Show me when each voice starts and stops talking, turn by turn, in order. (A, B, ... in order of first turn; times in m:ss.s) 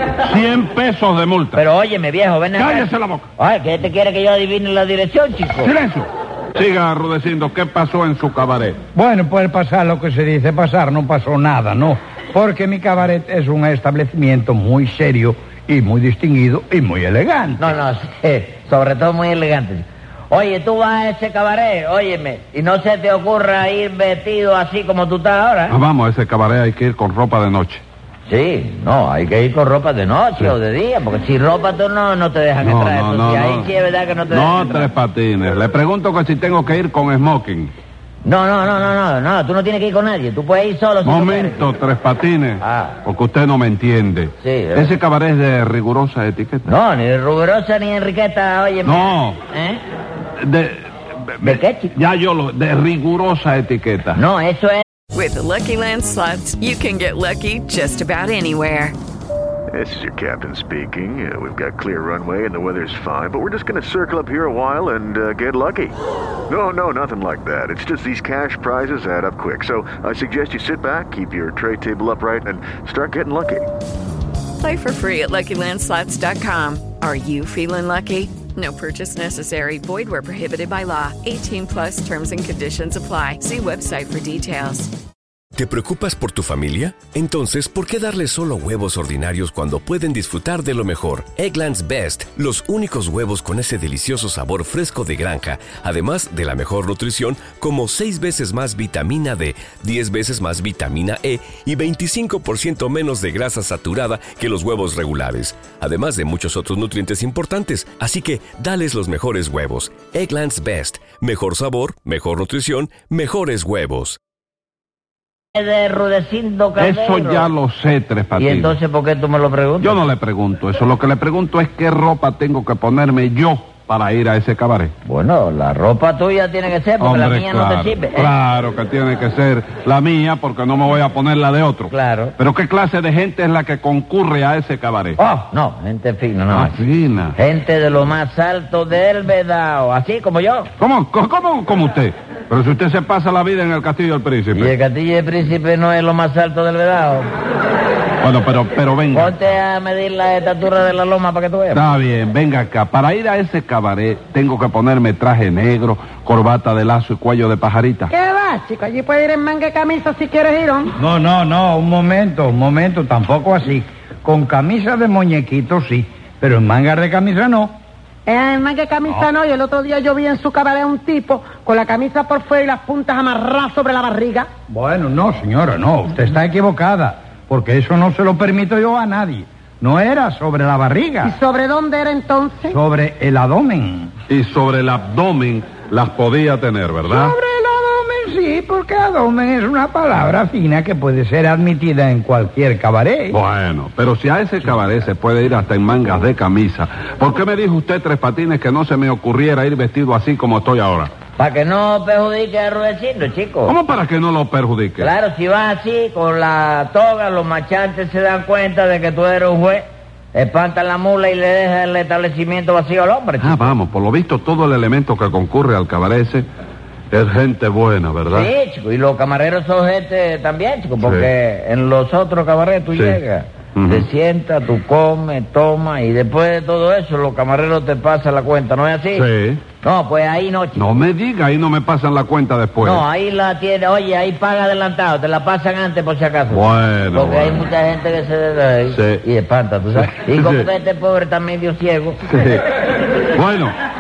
0:00.2-0:01.6 A
0:01.6-0:05.7 B
0:02.6-0:03.3 A
0:05.6-0:08.8 A
0:09.0-0:17.7 C
0:17.6-0:25.8 B
0:25.7-0:27.8 A
0:28.3-0:34.9 B
0:32.6-0:33.7 A
0:34.3-0:37.7 A
0:38.2-0:41.7 B
0:41.0-0:46.7 A
0:42.6-0:43.0 B
0:44.4-0:44.9 B
0:46.7-0:49.8 B
0:48.8-0:49.4 A
0:50.4-0:54.2 A
0:51.4-0:52.0 B
0:54.1-0:54.8 B
0:55.1-0:59.0 D
0:59.7-1:06.0 E
1:06.5-1:13.6 E
1:14.6-1:24.9 D
1:25.6-1:54.2 F
1:55.6-1:57.5 B
1:56.8-1:58.8 A
1:58.4-2:00.0 B
1:59.8-2:04.9 A
2:05.0-2:08.3 B
2:07.0-2:15.2 A
2:11.9-2:12.4 B
2:15.2-2:16.8 B
2:16.5-2:17.4 A
2:17.3-2:20.7 B
2:20.8-2:24.7 A
2:24.5-2:27.3 B
2:28.2-2:29.4 A
2:29.1-2:31.9 B
2:31.7-2:38.1 A
2:38.1-2:40.9 G
2:41.0-2:47.8 C
2:48.3-2:54.5 G
2:54.7-3:01.3 C
3:01.2-3:02.8 G
3:02.7-3:04.1 C
3:04.3-3:07.4 A
3:07.1-3:13.4 C
3:13.3-3:21.1 A
3:21.4-3:23.8 B
3:23.7-3:25.1 A
3:25.0-3:33.8 B
3:33.4-3:36.5 A
3:37.1-3:38.5 A
3:38.2-3:51.0 B
3:41.0-3:41.3 A
3:42.9-3:43.2 A
3:43.8-3:44.1 A
3:49.1-3:49.7 A
3:50.8-3:53.0 A
3:52.8-4:02.2 B
3:56.5-3:57.7 A
3:58.9-3:59.2 A
3:59.9-4:00.7 A
4:02.3-4:02.7 A
4:03.3-4:03.7 A